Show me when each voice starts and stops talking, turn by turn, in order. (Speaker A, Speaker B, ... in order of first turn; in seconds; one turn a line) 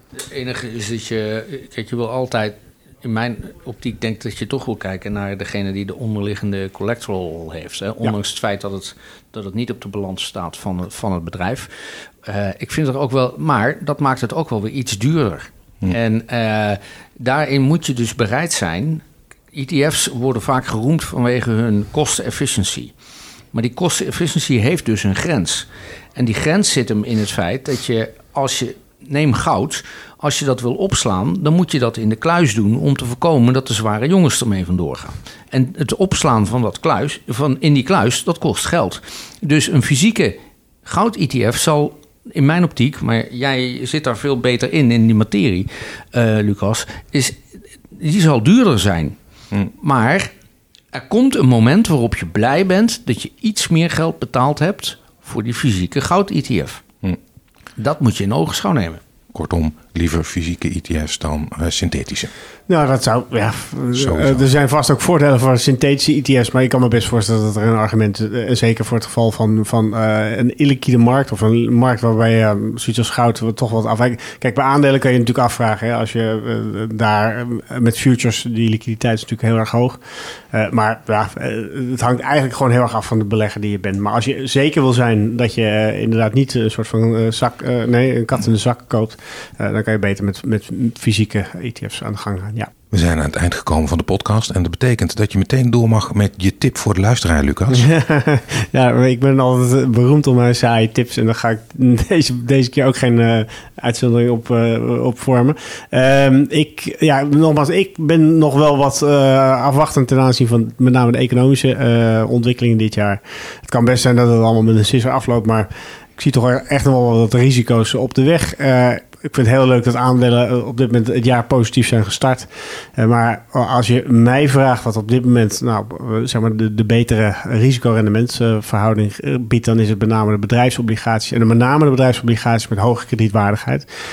Speaker A: 0.1-22.9
Speaker A: 23.5-50.3
Speaker A: 50.9-56.8
Speaker A: 57.8-59.0
Speaker B: 59.3-62.3
Speaker C: 62.7-80.0
Speaker B: 64.0-64.4
Speaker C: 80.5-92.7
Speaker B: 92.9-97.9
Speaker C: 97.7-133.8